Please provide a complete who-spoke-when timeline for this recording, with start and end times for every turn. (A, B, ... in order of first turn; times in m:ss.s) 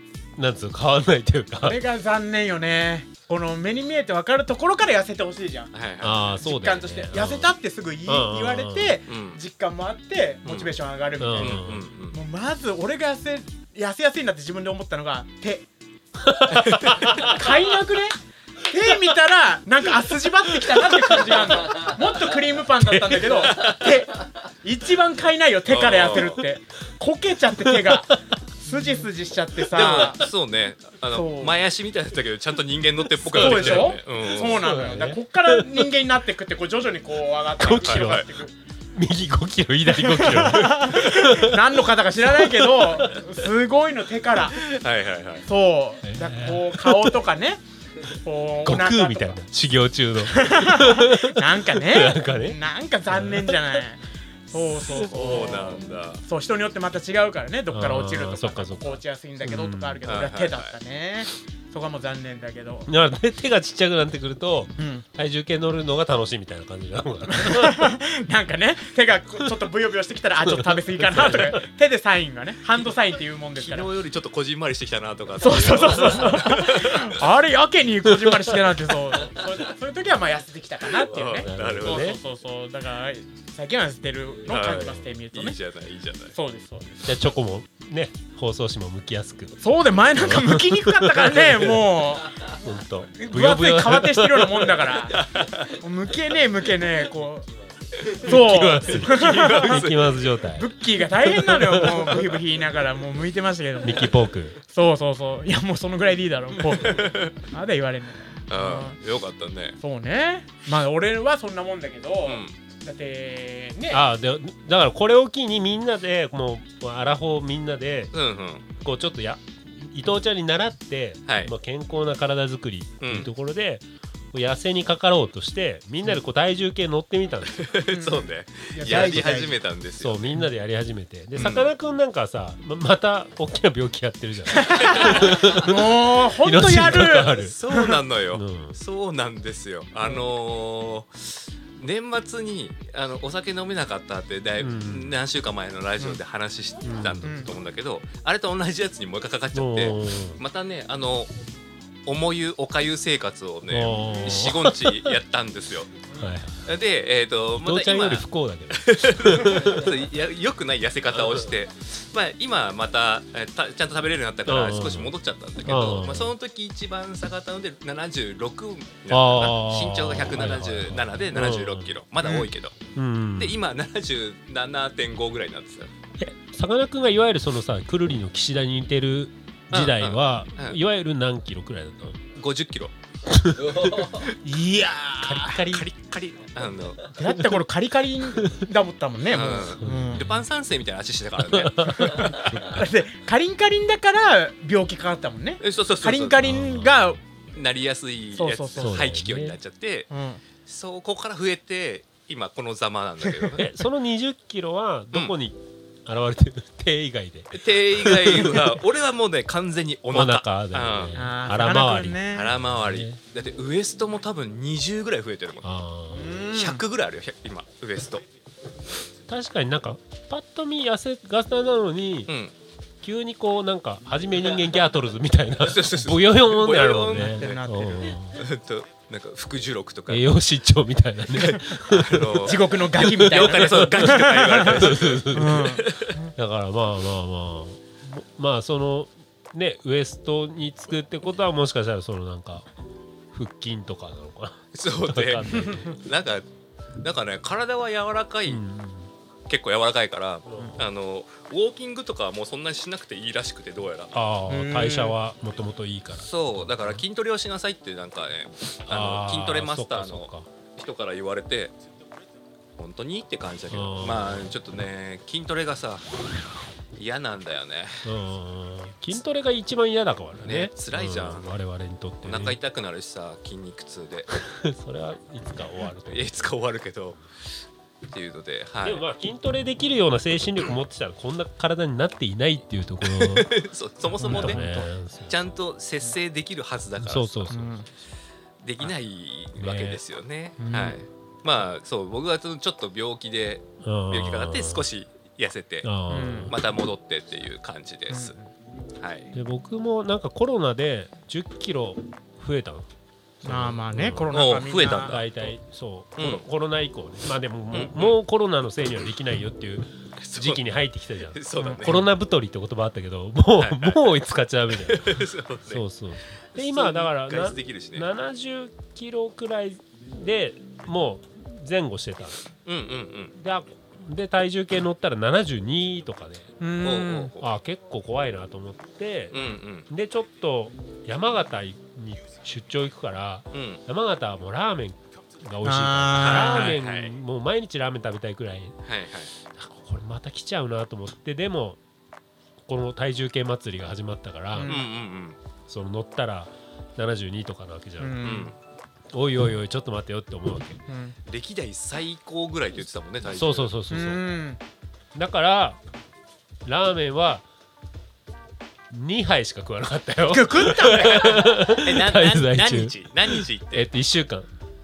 0:00.4-0:01.8 A
0:01.6-0:05.7 B
0:05.7-0:06.4 C
0:06.0-0:07.5 A
0:06.4-0:15.7 B
0:08.1-0:09.0 A
0:09.1-0:09.4 C
0:10.4-0:10.8 C
0:11.2-0:11.8 A
0:11.4-0:12.2 C
0:16.3-0:17.4 A
0:16.5-0:17.3 C
0:17.0-0:30.2 B
0:23.5-0:23.8 C
0:25.7-0:26.4 C
0:29.7-0:34.6 C
0:31.1-0:31.6 B
0:33.2-0:35.7 A
0:33.3-0:38.6 B
0:37.6-0:38.3 A
0:37.8-0:38.3 C
0:39.0-0:41.6 A
0:39.9-0:44.6 B
0:42.3-0:43.1 A
0:44.6-0:45.4 C
0:45.4-0:49.4 B
0:46.0-0:47.2 A
0:48.6-0:52.6 A
0:50.2-1:02.9 B
0:53.1-0:53.8 A
0:54.8-0:55.1 A
0:54.9-0:56.2 C
0:57.7-1:00.1 A
1:00.0-1:00.8 C
1:02.9-1:07.9 A
1:04.8-1:05.1 B
1:07.3-1:13.9 B
1:10.4-1:11.6 A
1:13.6-1:17.2 C
1:15.4-1:25.6 B
1:15.7-1:16.5 A
1:18.1-1:18.6 A
1:21.0-1:22.1 C
1:21.1-1:22.2 A
1:24.5-1:26.3 C
1:26.3-1:27.2 B
1:27.0-1:29.6 A
1:29.6-1:32.5 B
1:30.1-1:34.9 A
1:33.1-1:37.5 B
1:35.1-1:35.6 C
1:38.1-1:39.9 B
1:38.2-1:40.7 A
1:39.1-1:40.2 C
1:40.4-1:49.0 B
1:41.2-1:42.3 A
1:43.8-1:44.6 A
1:46.7-1:47.4 C
1:48.5-1:49.8 C
1:49.8-1:54.1 B
1:52.2-1:52.6 C
1:53.9-1:58.1 A
1:58.1-1:58.7 C
1:58.8-2:07.6 A
2:01.3-2:01.5 C
2:03.0-2:03.3 C
2:07.5-2:10.3 C
2:07.9-2:09.6 B
2:08.8-2:09.3 A
2:10.0-2:17.6 A
2:11.4-2:11.7 C
2:14.5-2:18.0 B
2:14.6-2:15.6 C
2:16.9-2:31.3 C
2:18.3-2:18.8 A
2:24.6-2:25.2 A
2:26.8-2:27.5 A
2:27.2-2:27.5 B
2:29.5-2:30.4 A
2:32.1-2:36.0 C
2:33.7-2:35.2 A
2:34.0-2:34.4 B
2:36.2-2:36.7 A
2:36.7-2:52.8 C
2:37.6-2:39.9 A
2:41.1-2:41.4 A
2:44.4-2:46.3 A
2:49.1-2:52.0 A
2:52.2-2:52.5 B
2:53.0-2:53.6 A
2:53.4-2:55.9 C
2:56.2-3:02.2 A
2:59.7-3:00.8 C
3:02.4-3:02.9 C
3:03.3-3:04.2 A
3:03.9-3:04.2 C
3:04.1-3:05.8 B
3:05.2-3:05.9 A
3:05.7-3:07.1 C
3:07.1-3:10.3 B
3:08.4-3:08.6 A
3:09.3-3:12.4 C
3:09.8-3:10.5 A
3:11.4-3:12.9 A
3:11.9-3:17.2 B
3:15.6-3:16.5 C
3:16.4-3:17.2 A
3:17.5-3:20.1 C
3:18.3-3:19.0 B
3:18.8-3:19.6 A
3:20.1-3:20.4 B
3:20.6-3:23.7 C
3:23.6-3:28.7 A
3:27.5-3:31.3 C
3:30.1-3:33.2 A
3:31.1-3:32.5 B
3:32.3-3:35.7 C
3:35.6-3:36.5 A
3:36.1-3:36.8 B
3:36.5-3:38.2 C
3:39.3-3:42.3 A
3:42.3-3:42.5 C
3:43.0-3:48.4 A
3:45.6-3:47.6 C
3:47.1-3:48.0 B
3:48.4-3:50.3 C
3:50.1-3:55.8 A
3:51.3-3:56.1 C
3:52.4-3:56.3 B
3:56.4-4:02.7 A
4:03.3-4:06.0 A
4:04.7-4:06.5 C
4:05.5-4:05.8 B
4:07.0-4:08.6 C
4:08.5-4:09.1 A
4:09.5-4:14.2 C
4:10.5-4:10.9 A
4:14.1-4:17.0 A
4:14.5-4:15.2 B
4:16.1-4:21.7 C
4:18.9-4:20.5 A
4:22.8-4:26.1 C
4:23.7-4:24.5 A
4:27.0-4:28.1 C
4:28.0-4:32.6 A
4:30.4-4:31.5 C
4:32.2-4:34.3 C
4:34.3-4:36.3 A
4:36.1-4:37.2 C
4:38.1-4:39.0 C
4:38.8-4:43.6 A
4:43.0-4:44.6 C
4:44.2-4:44.9 B
4:44.2-4:45.4 A
4:45.3-4:47.6 C
4:47.0-4:47.8 A
4:47.5-4:47.9 B
4:48.6-4:55.9 C
4:49.6-4:50.0 A
4:50.6-4:51.0 B
4:53.8-4:54.8 A
4:55.8-4:56.6 A
4:56.1-4:56.6 B
4:56.5-4:58.4 C
4:58.1-4:58.5 B
4:59.0-4:59.3 C
4:59.3-5:02.9 A
5:03.4-5:05.2 B
5:03.4-5:22.4 A
5:04.3-5:05.5 C
5:06.2-5:06.4 C
5:07.7-5:08.2 C
5:10.2-5:10.6 C
5:11.3-5:12.1 C
5:13.6-5:14.2 C
5:14.7-5:15.8 C
5:16.5-5:18.1 C
5:22.6-5:23.4 C
5:23.4-5:26.5 A
5:26.6-5:27.3 B
5:26.8-5:27.5 C
5:27.4-5:38.8 A
5:29.3-5:29.9 C
5:33.5-5:33.8 C
5:35.6-5:36.7 B
5:36.2-5:37.1 C
5:38.8-5:39.3 C
5:39.5-5:41.8 A
5:42.6-5:44.8 A
5:44.5-5:44.9 B
5:44.6-5:45.4 C
5:45.7-5:48.4 A
5:48.0-5:48.5 B
5:48.2-5:48.6 C
5:49.1-5:50.8 A
5:50.9-5:51.2 B
5:51.3-5:54.2 C
5:53.3-5:54.2 A
5:53.9-5:54.6 B
5:55.2-5:55.8 A
5:56.6-5:57.4 A
5:58.9-6:04.5 A
6:00.2-6:01.6 B
6:00.9-6:03.9 C